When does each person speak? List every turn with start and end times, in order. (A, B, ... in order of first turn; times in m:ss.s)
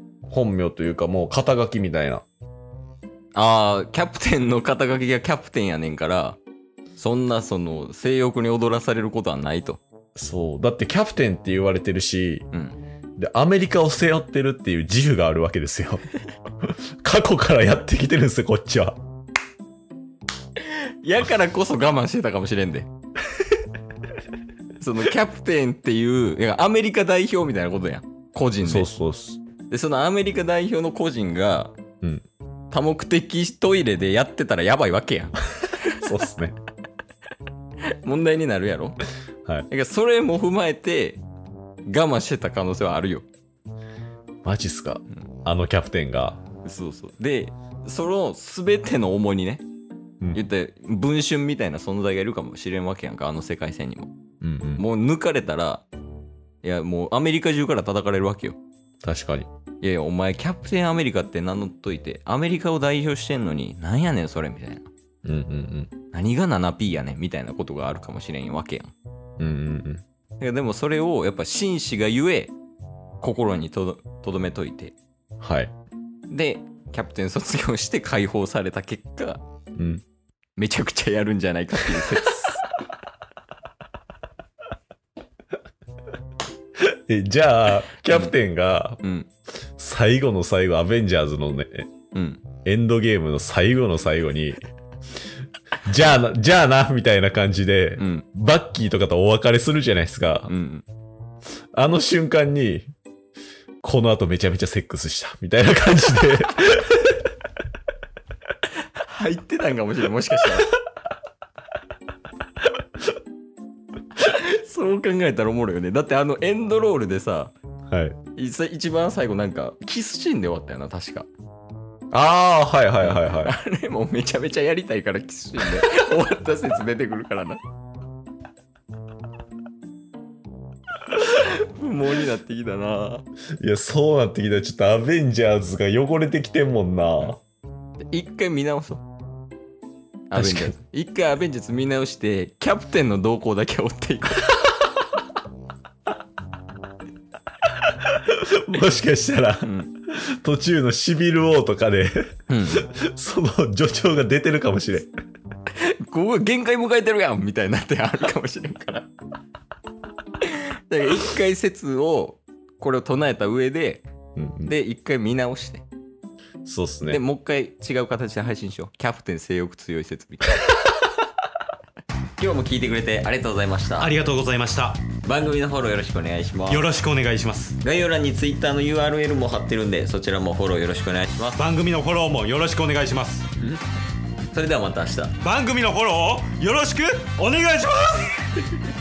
0:00.3-0:02.2 A
0:03.4-0:06.4 B
0:07.0-0:09.8 B
0:10.2-0:12.5 A
0:12.5-0:12.8 B
0:13.2-0:16.1 A
0:16.6-0:19.0 A
0:20.6-0:22.9 B
0:24.8-0:28.9 B
0:28.6-0:29.4 A
0:29.7-0:31.7 B
0:32.7-0:36.0 B
0:36.0-0:36.6 A
0:38.0-0:39.0 B
0:39.7-0:41.2 B
0:41.9-0:43.3 B
0:44.4-0:46.4 A
0:46.6-0:49.6 B
0:50.3-0:54.1 B
0:54.4-0:54.8 A
0:54.8-0:55.8 B
0:56.6-0:58.6 B
0:59.0-0:59.5 A
0:59.8-1:04.9 B
1:05.2-1:05.9 A
1:06.1-1:08.9 B
1:09.4-1:10.0 A
1:10.4-1:12.5 B
1:13.2-1:15.0 B
1:15.4-1:15.7 A
1:16.3-1:19.4 B
1:19.8-1:20.0 A
1:20.6-1:22.7 B
1:26.8-1:29.0 A
1:28.1-1:28.3 B
1:29.0-1:29.3 B
1:29.8-1:31.9 A
1:32.1-1:32.4 B
1:32.6-1:34.6 A
1:35.8-1:40.5 A
1:38.0-1:38.3 B
1:40.5-1:40.8 B
1:41.7-1:42.9 A
1:43.8-1:47.2 A
1:49.0-1:50.7 B
1:54.2-1:57.6 B
1:57.9-1:58.2 A
1:58.4-2:01.3 B
2:02.1-2:03.6 A
2:03.0-2:07.6 B
2:11.1-2:13.3 B
2:13.6-2:17.4 A
2:18.1-2:19.0 B
2:20.3-2:24.7 B
2:20.3-2:20.8 A
2:28.0-2:35.1 A
2:29.6-2:29.9 B
2:32.5-2:32.9 B
2:35.7-2:39.1 B
2:40.4-2:44.1 B
2:44.4-2:44.7 A
2:44.6-2:45.8 B
2:46.6-2:47.2 A
2:47.1-2:50.9 B
2:52.4-2:54.2 B
2:54.0-2:55.0 C
2:55.2-2:56.9 B
2:56.7-2:57.8 C
2:57.8-3:01.7 B
3:01.6-3:03.5 C
3:04.5-3:05.4 B
3:05.4-3:08.3 C